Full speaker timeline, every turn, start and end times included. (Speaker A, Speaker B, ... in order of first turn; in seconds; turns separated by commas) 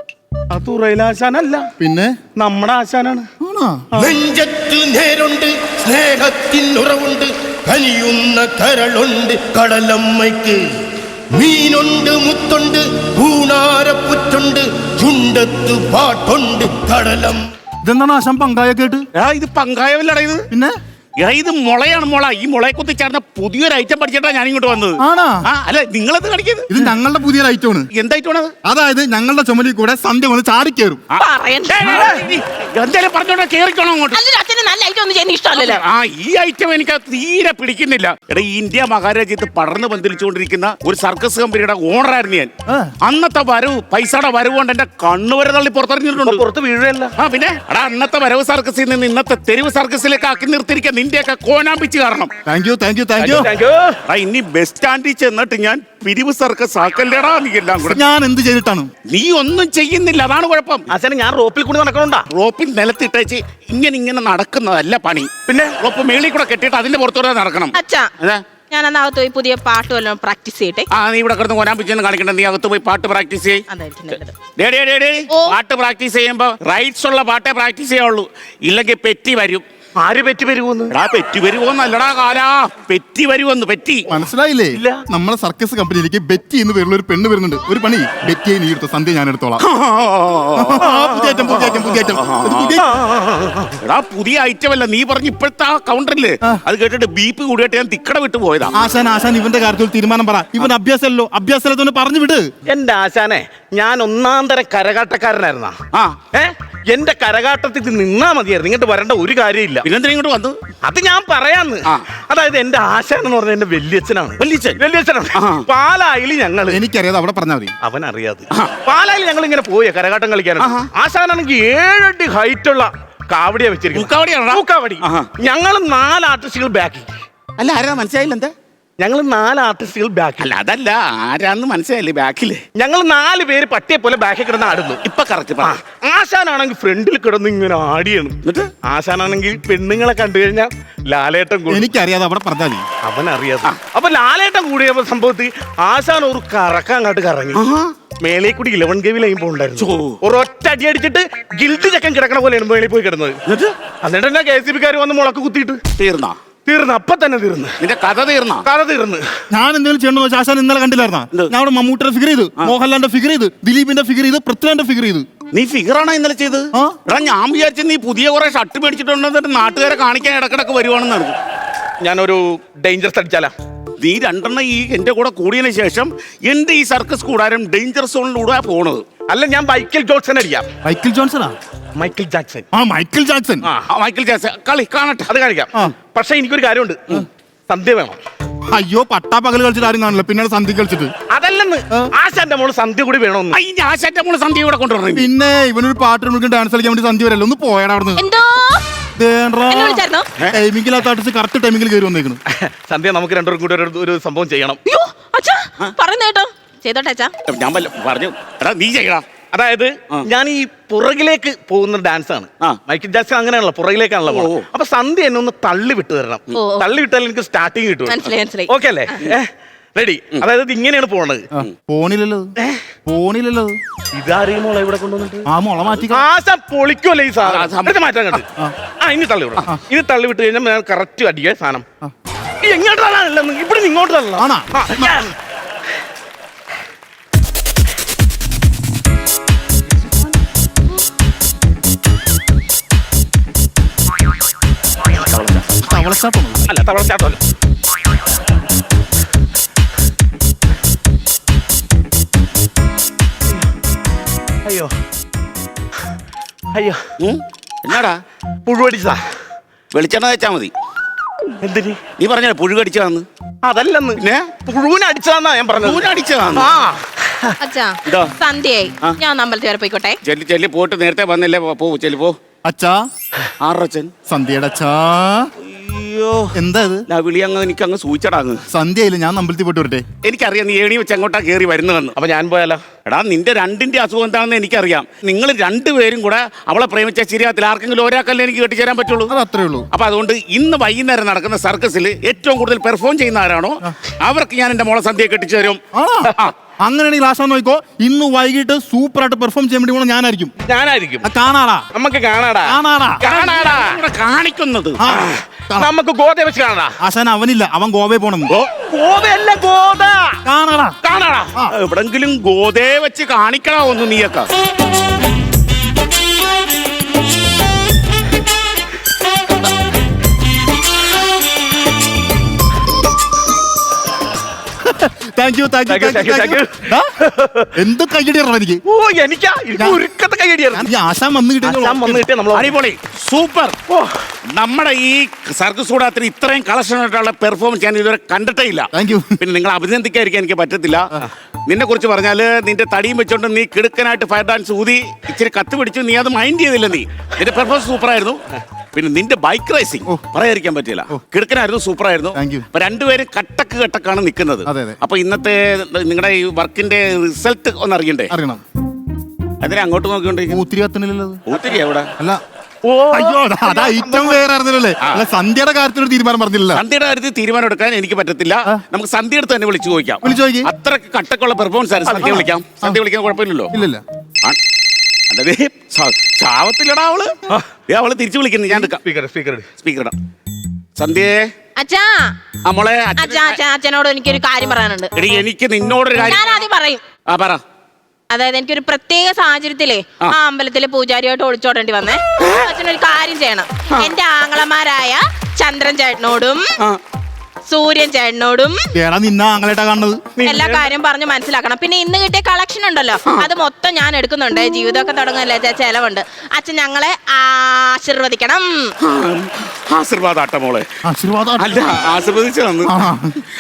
Speaker A: 0.5-1.7, Speaker B: 1.8-2.2, Speaker A: 2.4-3.3, Speaker B: 3.4-3.9, Speaker C: 4.0-10.7, Speaker C: 11.3-17.5, Speaker B: 17.8-19.1, Speaker D: 19.1-20.4, Speaker D: 21.2-26.7, Speaker B: 25.0-25.4, Speaker B: 26.7-27.9, Speaker D: 27.9-28.5, Speaker B: 28.6-31.0, Speaker D: 31.1-34.2, Speaker E: 31.2-32.2, Speaker E: 34.1-35.8, Speaker D: 35.5-42.5, Speaker B: 42.7-42.9, Speaker D: 43.0-46.4, Speaker A: 46.2-47.1, Speaker D: 47.2-52.3, Speaker B: 52.5-53.5, Speaker A: 53.2-54.0, Speaker D: 54.1-58.0, Speaker B: 57.9-58.9, Speaker D: 59.1-60.9, Speaker A: 60.9-62.3, Speaker D: 62.3-68.4, Speaker A: 65.5-65.8, Speaker E: 67.8-68.1, Speaker E: 68.7-70.9, Speaker D: 70.9-73.6, Speaker E: 73.7-74.3, Speaker D: 74.6-79.6, Speaker E: 75.3-75.6, Speaker A: 80.0-80.9, Speaker D: 80.9-84.1, Speaker B: 84.1-89.6, Speaker A: 84.8-85.0, Speaker D: 89.6-90.9, Speaker B: 90.6-92.9, Speaker A: 90.8-91.7, Speaker D: 91.6-92.8, Speaker A: 92.8-93.7, Speaker D: 93.8-98.8, Speaker B: 98.8-102.5, Speaker A: 102.7-105.8, Speaker A: 106.3-109.9, Speaker D: 109.8-110.6, Speaker A: 110.8-116.8, Speaker D: 114.4-114.8, Speaker D: 115.3-115.7, Speaker B: 116.7-117.8, Speaker A: 117.8-127.1, Speaker D: 120.6-120.9, Speaker D: 123.9-125.3, Speaker D: 127.6-128.5, Speaker A: 129.0-130.5, Speaker D: 130.4-132.7, Speaker A: 132.8-135.0, Speaker D: 135.0-135.8, Speaker A: 135.6-141.9, Speaker D: 138.4-138.7, Speaker B: 141.7-142.8, Speaker A: 143.0-147.6, Speaker D: 147.5-147.9, Speaker A: 148.2-153.4, Speaker D: 149.8-150.2, Speaker D: 153.5-153.7, Speaker A: 154.0-155.9, Speaker D: 155.9-156.4, Speaker A: 156.7-157.8, Speaker D: 157.8-158.7, Speaker A: 158.7-159.2, Speaker B: 159.5-165.3, Speaker D: 165.5-171.4, Speaker A: 172.0-173.5, Speaker D: 174.0-179.0, Speaker A: 179.3-180.7, Speaker B: 180.8-181.6, Speaker A: 181.9-182.7, Speaker B: 182.7-183.7, Speaker D: 183.9-185.3, Speaker A: 185.3-188.2, Speaker B: 188.7-191.1, Speaker A: 191.3-193.6, Speaker D: 193.5-195.3, Speaker B: 195.1-198.2, Speaker E: 198.2-198.8, Speaker B: 199.2-202.4, Speaker E: 199.7-200.3, Speaker A: 202.5-204.8, Speaker E: 204.8-207.3, Speaker D: 207.5-209.2, Speaker A: 209.5-221.4, Speaker D: 214.3-214.7, Speaker E: 216.5-216.9, Speaker E: 218.1-219.2, Speaker B: 221.5-222.5, Speaker B: 223.1-223.8, Speaker A: 224.1-225.5, Speaker B: 225.5-226.2, Speaker A: 226.0-228.5, Speaker D: 227.4-228.0, Speaker A: 229.0-231.8, Speaker A: 232.6-235.3, Speaker B: 234.4-235.1, Speaker D: 245.2-245.7, Speaker B: 245.8-246.7, Speaker A: 246.7-247.4, Speaker A: 254.7-254.9, Speaker A: 256.7-257.1, Speaker D: 257.2-258.2, Speaker A: 258.7-259.2, Speaker D: 259.9-260.7, Speaker A: 261.6-262.1, Speaker D: 262.2-263.3, Speaker A: 263.6-267.6, Speaker D: 264.2-264.5, Speaker D: 265.8-266.7, Speaker E: 267.6-270.2, Speaker D: 268.1-268.3, Speaker D: 270.2-272.4, Speaker B: 272.7-273.0, Speaker D: 273.6-274.1, Speaker B: 274.3-275.5, Speaker D: 275.6-276.5, Speaker B: 276.6-277.1, Speaker D: 277.1-278.6, Speaker B: 278.7-280.1, Speaker D: 280.2-282.2, Speaker A: 282.2-282.8, Speaker D: 283.1-289.3, Speaker B: 289.3-289.9, Speaker D: 289.9-295.8, Speaker B: 295.9-300.5, Speaker A: 300.6-301.3, Speaker B: 301.2-301.9, Speaker A: 301.9-303.8, Speaker B: 302.6-303.3, Speaker D: 303.2-305.0, Speaker B: 305.0-305.9, Speaker A: 305.1-306.9, Speaker B: 307.0-308.5, Speaker A: 308.7-310.4, Speaker B: 310.4-311.0, Speaker A: 311.0-311.5, Speaker D: 311.7-314.5, Speaker B: 324.8-327.1, Speaker A: 325.9-327.7, Speaker B: 327.7-328.8, Speaker A: 328.9-330.9, Speaker B: 330.7-332.3, Speaker A: 331.6-332.8, Speaker D: 332.5-333.8, Speaker A: 333.9-334.2, Speaker D: 334.5-341.1, Speaker B: 338.9-339.4, Speaker D: 341.7-348.4, Speaker D: 348.9-358.3, Speaker B: 352.4-352.7, Speaker B: 354.7-355.0, Speaker B: 358.3-358.6, Speaker D: 359.6-360.6, Speaker B: 360.5-361.5, Speaker D: 361.5-362.1, Speaker A: 362.9-364.4, Speaker B: 363.1-366.8, Speaker D: 366.7-373.7, Speaker B: 370.2-370.7, Speaker A: 372.1-372.4, Speaker B: 372.2-373.0, Speaker B: 373.7-374.0, Speaker D: 375.3-377.4, Speaker D: 377.9-379.0, Speaker A: 378.8-379.7, Speaker D: 379.8-380.1, Speaker D: 381.0-381.5, Speaker E: 381.8-382.4, Speaker D: 382.6-383.6, Speaker E: 383.2-385.1, Speaker D: 385.2-386.4, Speaker E: 386.2-387.0, Speaker D: 387.3-387.6, Speaker E: 388.3-396.8, Speaker E: 397.7-398.9, Speaker B: 398.9-400.3, Speaker A: 400.4-400.9, Speaker E: 400.4-408.9, Speaker D: 409.0-410.9, Speaker B: 411.1-411.8, Speaker D: 411.6-412.9, Speaker B: 412.9-413.4